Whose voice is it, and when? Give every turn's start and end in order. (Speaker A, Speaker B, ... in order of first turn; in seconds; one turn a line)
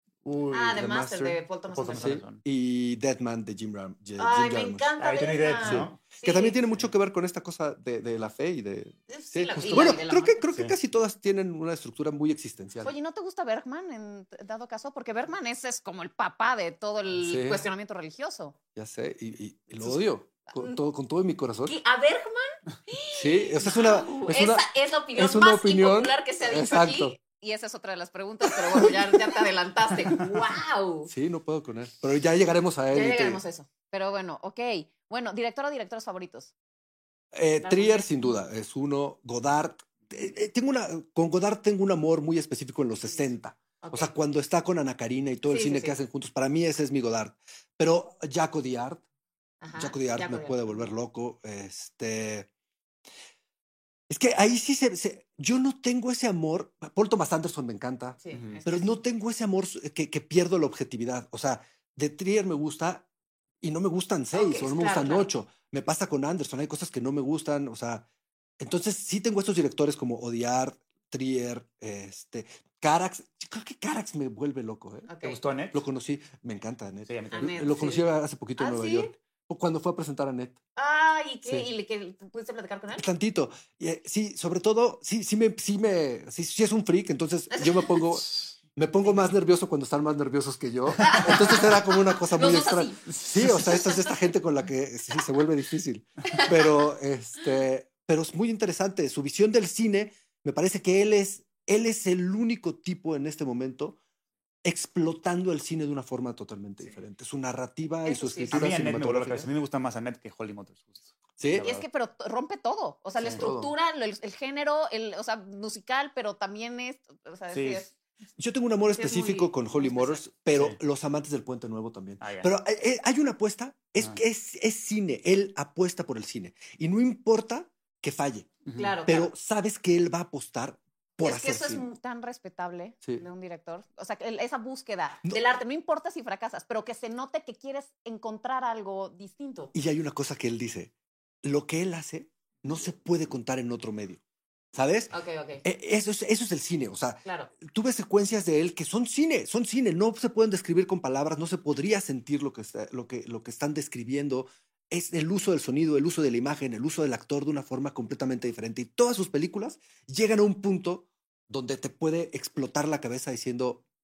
Speaker A: 0.2-0.8
Speaker B: 0.5-2.2
Speaker C: 0.7-1.4
Speaker A: 1.7-2.4
Speaker C: 1.9-4.9
Speaker B: 4.2-6.6
Speaker A: 5.0-6.0
Speaker C: 5.6-12.9
Speaker B: 9.1-10.4
Speaker A: 9.6-9.9
Speaker B: 12.8-18.6
Speaker C: 17.2-17.6
Speaker C: 18.7-21.7
Speaker B: 19.8-20.8
Speaker B: 21.6-31.1
Speaker C: 23.1-27.2
Speaker C: 28.7-29.3
Speaker C: 31.1-33.4
Speaker B: 32.9-36.5
Speaker C: 37.3-49.0
Speaker B: 37.6-38.4
Speaker B: 43.8-44.1
Speaker B: 45.5-46.0
Speaker B: 49.6-50.9
Speaker C: 49.8-52.5
Speaker C: 54.1-63.0
Speaker B: 58.2-58.9
Speaker A: 58.3-58.6
Speaker C: 63.6-68.0
Speaker B: 64.3-65.3
Speaker C: 68.6-75.1
Speaker B: 75.1-75.4
Speaker A: 75.2-75.8
Speaker C: 75.7-80.6
Speaker A: 77.1-77.5
Speaker B: 77.3-79.1
Speaker B: 80.8-83.1
Speaker C: 82.9-104.0
Speaker B: 87.5-88.0
Speaker B: 89.0-89.3
Speaker A: 91.0-91.4
Speaker B: 91.0-91.7
Speaker B: 92.3-94.1
Speaker A: 93.1-93.6
Speaker B: 96.3-96.9
Speaker C: 104.6-109.5
Speaker B: 108.0-108.8
Speaker A: 108.5-111.8
Speaker C: 111.4-111.7
Speaker B: 111.6-118.0
Speaker A: 113.2-113.5
Speaker C: 113.3-113.7
Speaker A: 117.5-117.8
Speaker C: 118.4-131.8
Speaker B: 118.9-120.2
Speaker A: 120.5-120.8
Speaker A: 122.2-122.5
Speaker A: 128.6-129.0
Speaker B: 128.7-129.3
Speaker B: 131.2-139.7
Speaker C: 139.7-140.9
Speaker C: 141.4-144.2
Speaker C: 144.7-145.1
Speaker B: 145.1-145.6
Speaker C: 145.6-163.8
Speaker B: 147.2-147.5